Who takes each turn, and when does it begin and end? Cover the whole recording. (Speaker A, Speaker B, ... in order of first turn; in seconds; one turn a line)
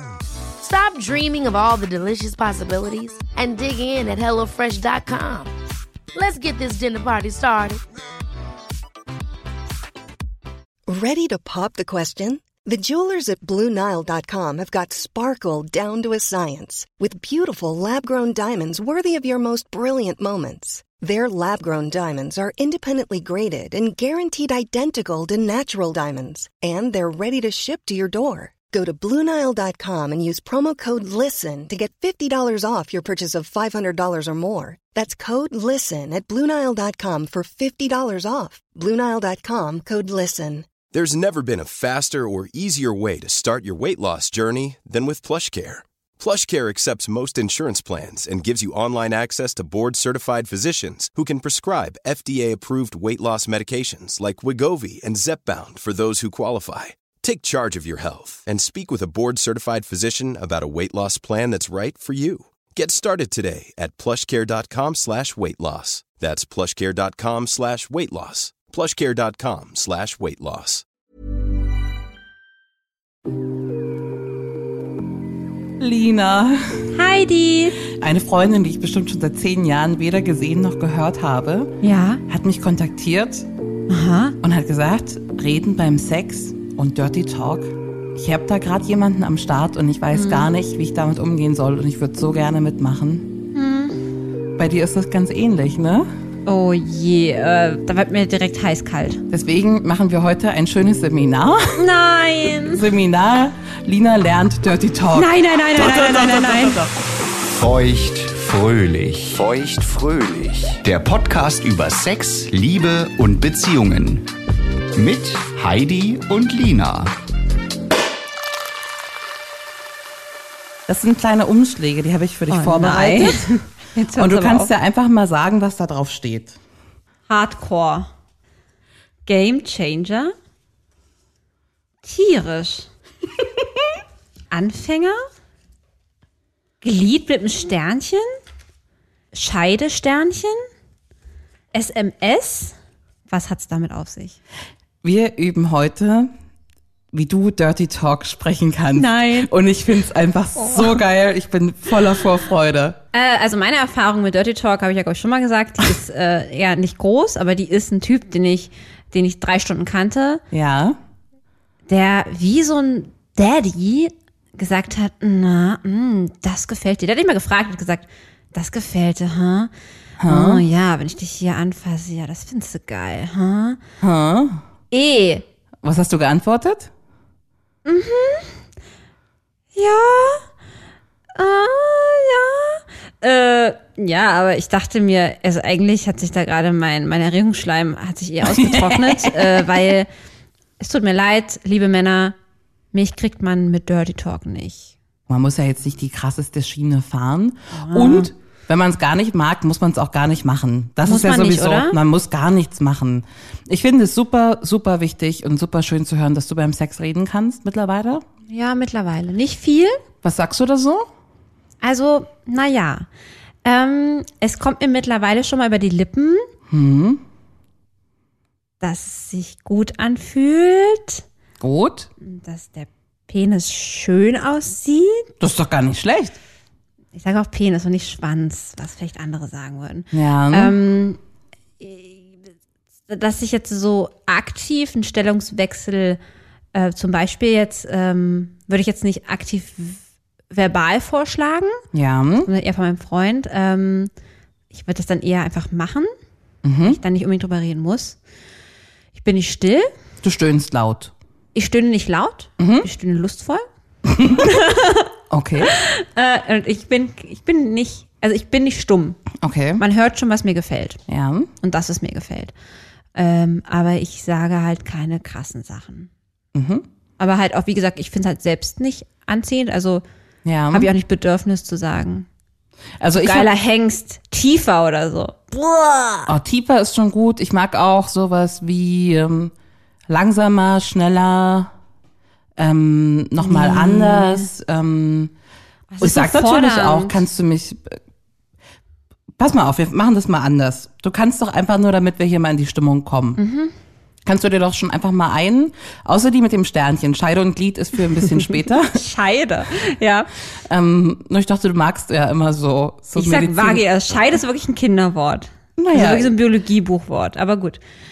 Speaker A: 0.6-5.5
Speaker A: 6.1-7.8
Speaker B: 10.9-40.7
Speaker C: 40.9-70.8
Speaker D: 75.8-76.9
Speaker E: 76.9-77.8
Speaker D: 77.8-83.5
Speaker E: 81.8-82.2
Speaker E: 83.9-84.3
Speaker D: 84.4-93.3
Speaker E: 90.1-90.5
Speaker E: 93.5-94.0
Speaker D: 94.6-96.1
Speaker E: 96.5-99.2
Speaker D: 99.3-101.8
Speaker E: 101.7-102.8
Speaker D: 102.7-105.3
Speaker E: 105.1-106.8
Speaker F: 107.5-114.2
Speaker F: 114.9-117.1
Speaker D: 120.9-123.5
Speaker E: 122.5-124.7
Speaker D: 124.1-126.6
Speaker E: 127.3-128.1
Speaker E: 129.2-130.3
Speaker E: 132.0-132.9
Speaker E: 134.5-135.2
Speaker E: 136.8-138.3
Speaker E: 139.3-140.6
Speaker E: 141.7-142.7
Speaker E: 143.3-144.4
Speaker D: 145.0-146.3
Speaker D: 147.1-153.0
Speaker E: 148.9-149.5
Speaker E: 150.6-150.9
Speaker E: 153.1-160.4
Speaker D: 160.5-161.0
Speaker E: 161.9-169.7
Speaker D: 170.2-170.7
Speaker E: 170.3-173.8
Speaker D: 174.0-174.6
Speaker E: 174.9-175.4
Speaker D: 175.8-176.9
Speaker E: 177.8-178.6
Speaker E: 179.7-180.4
Speaker E: 181.3-190.1
Speaker D: 188.4-189.6
Speaker E: 190.8-192.3
Speaker E: 192.9-194.9
Speaker D: 195.3-208.2
Speaker E: 197.7-198.3
Speaker E: 201.1-202.0
Speaker E: 208.5-210.0
Speaker D: 210.2-211.1
Speaker E: 211.8-213.1
Speaker E: 213.6-216.5
Speaker D: 216.7-217.2
Speaker E: 218.8-221.2
Speaker D: 221.6-222.1
Speaker E: 222.2-225.3
Speaker D: 225.4-226.4
Speaker E: 227.1-231.2
Speaker D: 230.1-230.8
Speaker E: 231.8-232.3
Speaker E: 233.1-236.2
Speaker E: 236.7-240.0
Speaker E: 240.5-241.8
Speaker D: 241.9-242.5
Speaker E: 242.4-244.1
Speaker E: 244.7-246.1
Speaker D: 246.6-247.0
Speaker E: 246.8-248.2
Speaker E: 249.1-249.9
Speaker D: 250.2-251.1
Speaker E: 251.5-253.6
Speaker D: 252.6-252.9
Speaker D: 254.1-254.5
Speaker E: 254.2-259.2
Speaker D: 255.3-255.7
Speaker D: 259.4-259.8
Speaker E: 259.8-261.0
Speaker D: 261.1-261.5
Speaker E: 261.6-262.5
Speaker E: 263.1-266.1
Speaker D: 266.5-266.9
Speaker E: 267.2-270.0
Speaker D: 270.4-270.9
Speaker E: 270.7-272.3
Speaker D: 273.0-273.5
Speaker E: 273.2-276.3
Speaker D: 276.3-279.5
Speaker D: 280.1-281.7
Speaker D: 282.6-285.3
Speaker E: 283.4-284.5
Speaker E: 285.9-287.2
Speaker D: 286.0-288.0
Speaker D: 289.4-293.4
Speaker E: 293.4-293.7
Speaker D: 294.2-299.0
Speaker E: 298.9-300.3
Speaker D: 300.6-303.8
Speaker E: 303.1-307.8
Speaker D: 305.8-306.3